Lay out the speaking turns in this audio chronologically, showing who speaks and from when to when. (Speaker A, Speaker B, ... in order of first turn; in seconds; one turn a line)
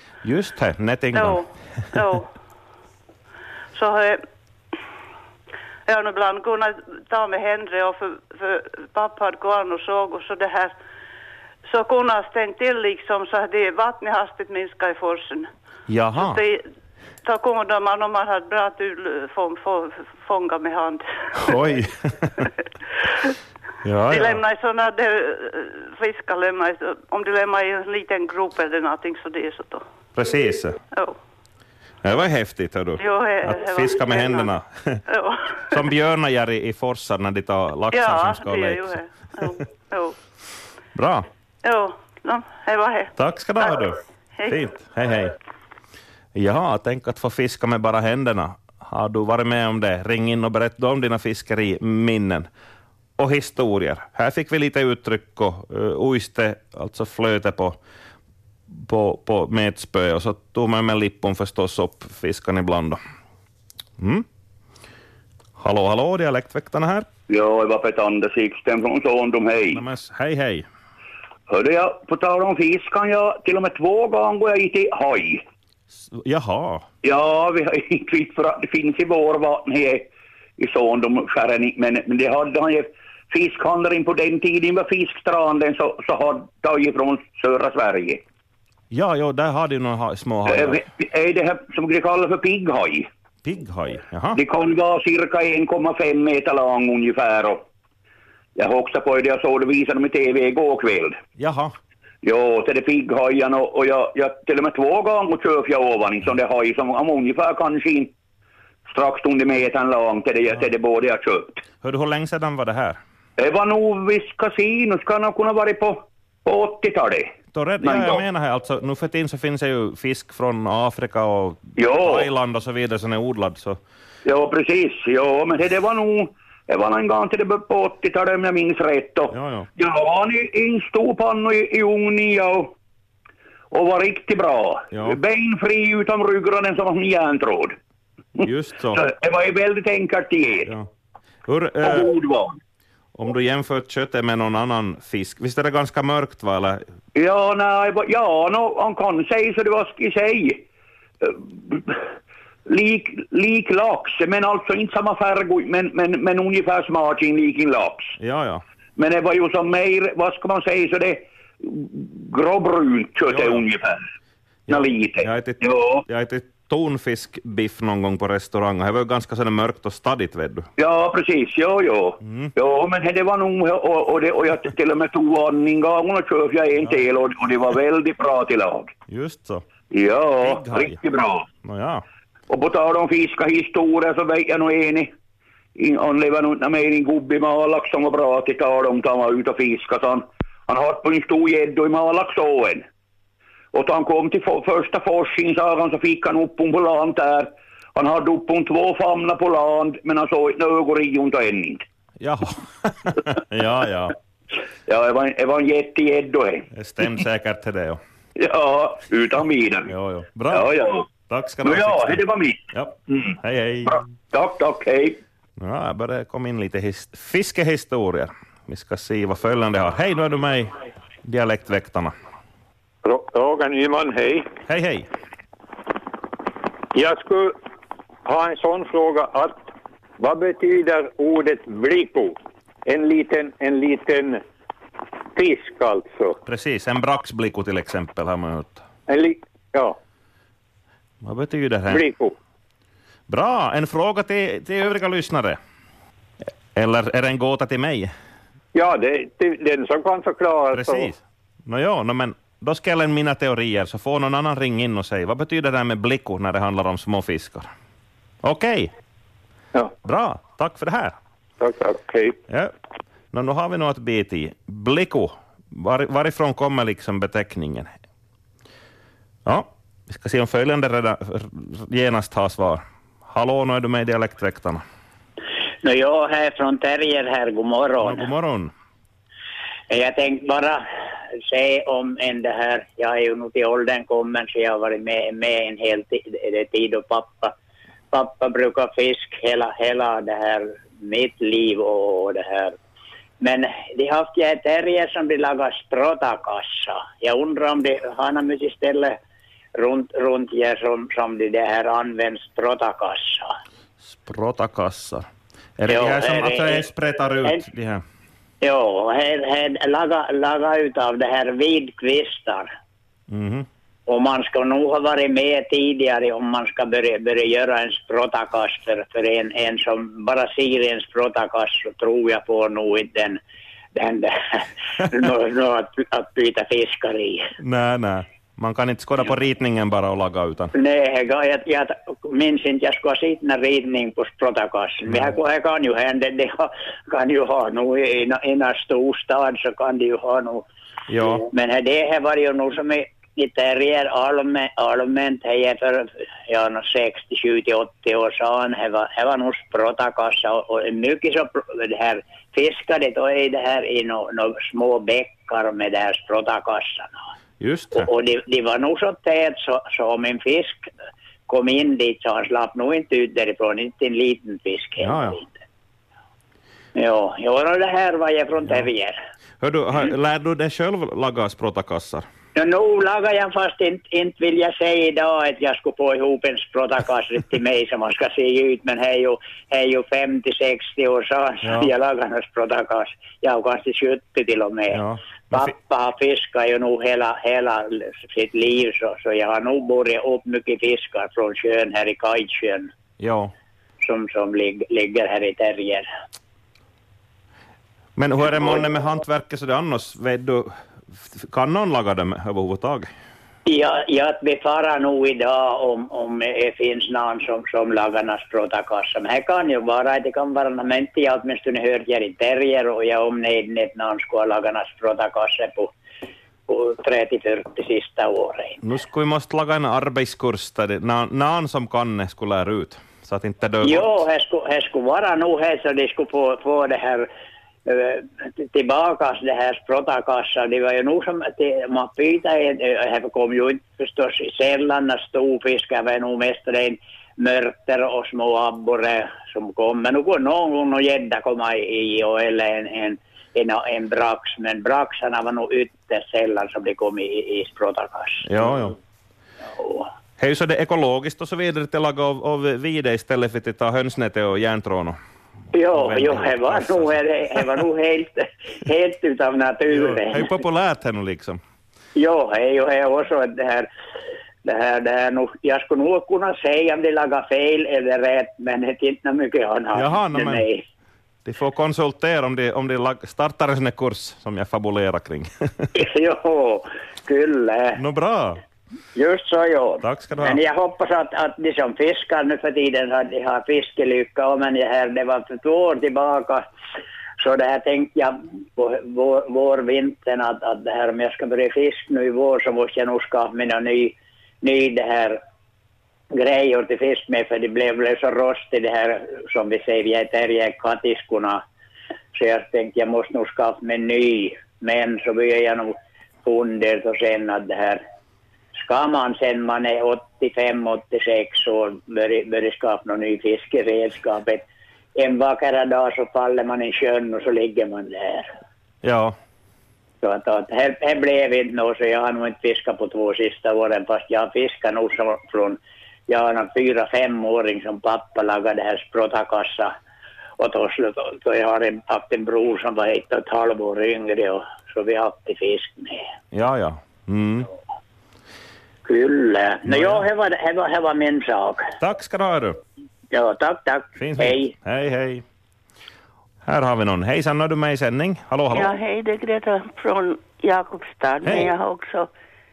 Speaker A: 0.2-1.4
Speaker B: 1.1-2.3
Speaker B: 3.8-4.2
Speaker B: 5.9-10.8
Speaker B: 11.7-15.5
Speaker A: 15.9-16.4
Speaker B: 16.1-16.6
Speaker B: 17.2-21.5
Speaker A: 21.4-22.4
Speaker A: 23.8-24.4
Speaker B: 24.1-29.9
Speaker A: 30.2-30.8
Speaker A: 32.0-35.0
Speaker B: 33.0-34.5
Speaker B: 35.1-35.9
Speaker A: 35.7-38.9
Speaker B: 37.9-40.2
Speaker A: 41.0-41.3
Speaker B: 41.6-43.1
Speaker A: 43.2-45.4
Speaker A: 46.4-52.5
Speaker A: 53.2-57.8
Speaker A: 58.7-63.0
Speaker A: 64.0-64.2
Speaker A: 65.6-67.1
Speaker C: 67.3-69.8
Speaker A: 69.7-70.7
Speaker C: 71.5-75.4
Speaker A: 76.1-76.9
Speaker C: 77.0-80.1
Speaker C: 80.6-88.2
Speaker A: 88.9-90.8
Speaker C: 90.5-93.1
Speaker A: 93.4-94.4
Speaker C: 94.4-97.6
Speaker C: 98.6-101.2
Speaker A: 101.4-101.7
Speaker C: 102.2-108.1
Speaker C: 108.9-111.6
Speaker A: 111.8-113.0
Speaker C: 113.4-118.2
Speaker A: 117.5-123.8
Speaker C: 121.8-122.3
Speaker C: 124.2-132.7
Speaker A: 129.3-129.7
Speaker C: 133.7-137.8
Speaker C: 138.4-140.7
Speaker A: 138.4-139.0
Speaker A: 141.5-142.1
Speaker C: 141.8-142.6
Speaker A: 143.2-146.8
Speaker C: 147.2-150.6
Speaker C: 151.2-152.0
Speaker C: 152.7-158.1
Speaker A: 158.2-158.6
Speaker C: 159.0-164.0
Speaker A: 163.3-163.7
Speaker A: 164.7-170.7
Speaker C: 164.7-166.0
Speaker C: 170.8-178.9
Speaker A: 172.2-172.5
Speaker A: 179.1-179.7
Speaker C: 179.9-181.5
Speaker A: 180.4-181.0
Speaker A: 181.6-182.0
Speaker C: 182.5-185.1
Speaker C: 185.8-192.8
Speaker C: 193.7-201.8
Speaker A: 202.2-204.2
Speaker C: 204.9-206.7
Speaker A: 206.7-208.0
Speaker C: 208.4-209.9
Speaker A: 209.9-210.8
Speaker C: 210.5-211.1
Speaker A: 211.3-214.0
Speaker C: 211.6-213.4
Speaker C: 213.9-215.2
Speaker A: 215.6-220.7
Speaker A: 221.2-222.1
Speaker D: 223.1-224.5
Speaker A: 224.7-225.1
Speaker D: 226.9-227.6
Speaker D: 228.2-234.4
Speaker D: 235.3-236.4
Speaker A: 236.5-238.8
Speaker D: 239.1-240.0
Speaker A: 241.2-242.1
Speaker D: 241.9-242.3
Speaker A: 243.3-245.6
Speaker A: 246.8-248.1
Speaker D: 248.7-251.1
Speaker A: 250.7-257.7
Speaker A: 258.4-258.9
Speaker A: 260.0-261.1
Speaker D: 261.6-262.4
Speaker A: 263.3-267.9
Speaker A: 269.4-274.8
Speaker E: 275.8-278.3
Speaker A: 278.0-278.7
Speaker E: 279.9-280.8
Speaker E: 281.4-287.5
Speaker E: 288.1-292.8
Speaker E: 293.4-299.2
Speaker E: 299.8-303.5
Speaker A: 304.0-305.3
Speaker A: 305.8-308.0
Speaker E: 305.9-306.9
Speaker E: 308.6-312.7
Speaker A: 313.3-313.7
Speaker E: 314.1-323.4
Speaker E: 323.9-327.5
Speaker A: 327.6-330.7
Speaker E: 330.7-340.7
Speaker A: 341.1-341.5
Speaker E: 341.4-357.2
Speaker A: 357.6-358.1
Speaker E: 357.9-360.9
Speaker E: 361.5-365.5
Speaker A: 365.0-365.4
Speaker E: 366.9-369.2
Speaker A: 369.6-372.3
Speaker E: 372.6-392.9
Speaker A: 381.6-381.9
Speaker A: 384.9-385.7
Speaker A: 393.2-393.5
Speaker E: 394.0-396.1
Speaker A: 398.2-403.1
Speaker E: 403.7-415.9
Speaker E: 416.7-418.8
Speaker A: 418.8-424.1
Speaker E: 423.8-427.3
Speaker E: 427.9-448.5
Speaker A: 448.4-449.0
Speaker E: 449.8-450.1
Speaker A: 450.4-455.2
Speaker E: 455.7-460.5
Speaker A: 456.0-457.1
Speaker A: 459.9-461.6
Speaker E: 462.1-463.9
Speaker E: 464.6-470.8
Speaker A: 469.9-470.6
Speaker A: 471.5-475.9
Speaker E: 475.9-478.0
Speaker A: 478.0-478.6
Speaker E: 479.1-486.7
Speaker A: 480.0-480.6
Speaker E: 487.4-495.4
Speaker E: 496.3-501.6
Speaker E: 502.3-508.0
Speaker E: 508.8-514.6
Speaker E: 515.2-518.5
Speaker A: 519.0-519.4
Speaker E: 520.2-530.0
Speaker E: 530.6-536.3
Speaker A: 536.5-537.7
Speaker E: 539.0-541.9
Speaker A: 539.9-540.2
Speaker A: 542.0-542.8
Speaker E: 543.3-544.7
Speaker A: 544.2-545.4
Speaker A: 546.6-548.9
Speaker F: 548.7-552.3
Speaker A: 551.5-551.7